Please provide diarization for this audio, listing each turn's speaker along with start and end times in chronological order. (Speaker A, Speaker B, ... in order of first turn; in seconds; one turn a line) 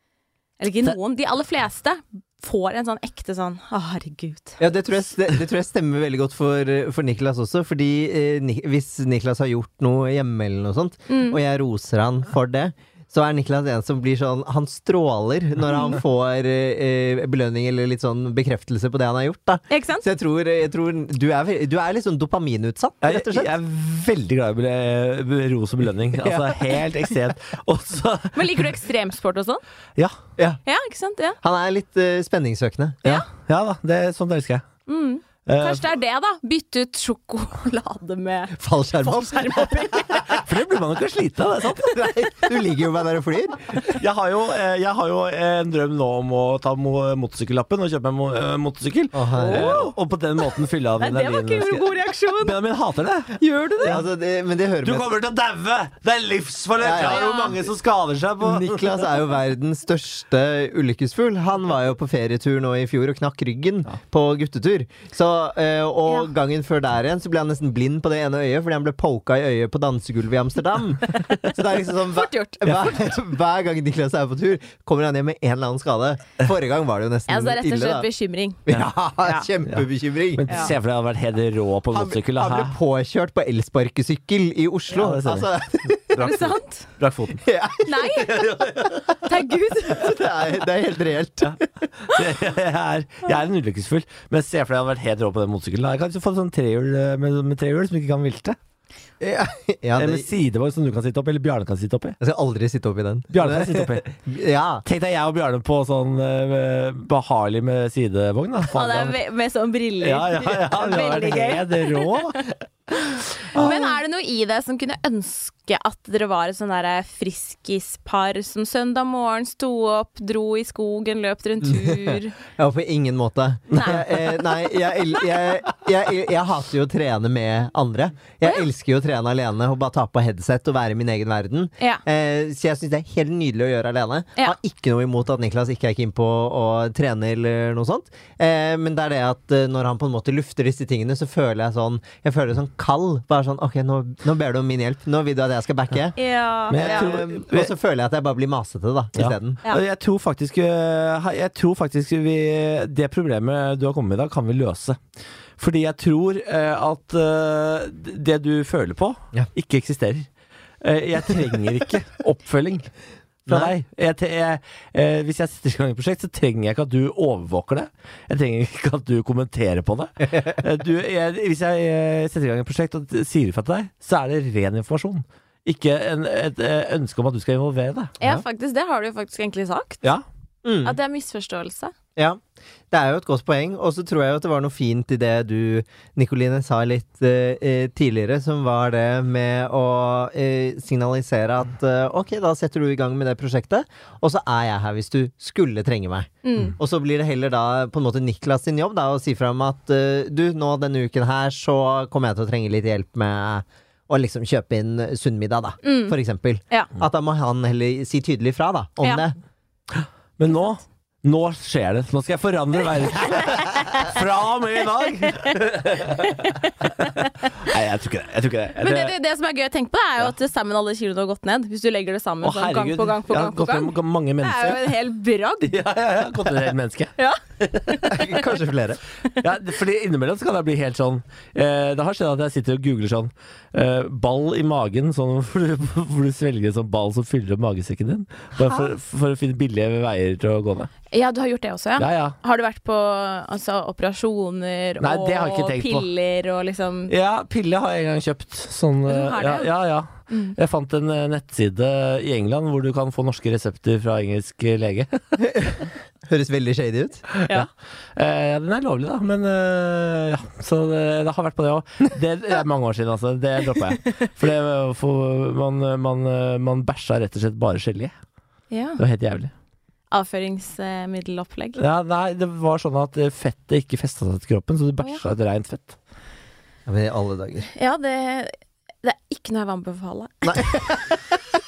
Speaker A: 0.6-4.6
Speaker B: 4.6-23.5
Speaker A: 11.1-11.4
Speaker A: 19.7-20.1
Speaker C: 23.0-28.6
Speaker B: 26.2-26.6
Speaker A: 28.3-29.6
Speaker A: 30.6-31.4
Speaker B: 31.4-33.2
Speaker C: 33.3-34.6
Speaker A: 34.9-40.4
Speaker C: 35.5-35.9
Speaker B: 38.6-40.2
Speaker C: 40.2-42.1
Speaker B: 41.8-44.0
Speaker C: 43.9-54.0
Speaker B: 49.1-49.9
Speaker A: 49.4-49.9
Speaker A: 51.0-52.6
Speaker A: 53.3-54.0
Speaker B: 53.9-55.1
Speaker C: 54.8-59.0
Speaker B: 56.8-57.3
Speaker A: 57.0-57.5
Speaker B: 58.4-78.0
Speaker A: 71.9-73.0
Speaker A: 77.3-78.6
Speaker B: 78.7-80.7
Speaker C: 80.3-82.7
Speaker A: 80.5-80.7
Speaker B: 81.9-86.4
Speaker C: 84.9-85.5
Speaker C: 86.1-87.4
Speaker A: 86.2-86.9
Speaker B: 87.4-88.5
Speaker A: 87.8-90.2
Speaker C: 88.2-89.2
Speaker B: 89.9-92.2
Speaker C: 91.4-98.6
Speaker B: 99.2-100.3
Speaker C: 100.0-102.2
Speaker B: 102.2-104.8
Speaker C: 103.3-104.1
Speaker C: 104.8-109.2
Speaker A: 108.6-112.5
Speaker C: 110.0-112.5
Speaker C: 113.5-113.8
Speaker A: 113.5-122.3
Speaker B: 122.5-146.2
Speaker A: 123.7-125.4
Speaker A: 146.2-147.1
Speaker C: 146.7-147.7
Speaker B: 146.7-149.6
Speaker C: 149.2-155.0
Speaker C: 155.6-160.3
Speaker C: 160.8-162.9
Speaker B: 163.5-163.7
Speaker C: 163.5-178.2
Speaker A: 178.2-180.0
Speaker B: 180.6-180.9
Speaker A: 180.8-181.9
Speaker B: 182.9-209.3
Speaker A: 196.4-196.7
Speaker A: 205.8-206.2
Speaker C: 209.9-216.5
Speaker A: 215.2-217.7
Speaker C: 217.6-219.1
Speaker A: 218.8-225.8
Speaker C: 222.4-224.9
Speaker C: 225.6-228.0
Speaker A: 227.2-228.4
Speaker B: 228.0-229.0
Speaker C: 229.4-240.9
Speaker A: 241.1-247.1
Speaker C: 242.0-242.3
Speaker C: 245.0-246.1
Speaker C: 247.1-255.2
Speaker A: 249.1-249.7
Speaker A: 250.3-250.6
Speaker B: 255.4-257.2
Speaker C: 257.3-268.1
Speaker A: 268.7-269.0
Speaker C: 269.0-269.5
Speaker A: 270.1-271.8
Speaker C: 271.8-276.0
Speaker B: 276.9-277.7
Speaker A: 277.7-281.2
Speaker B: 280.5-280.8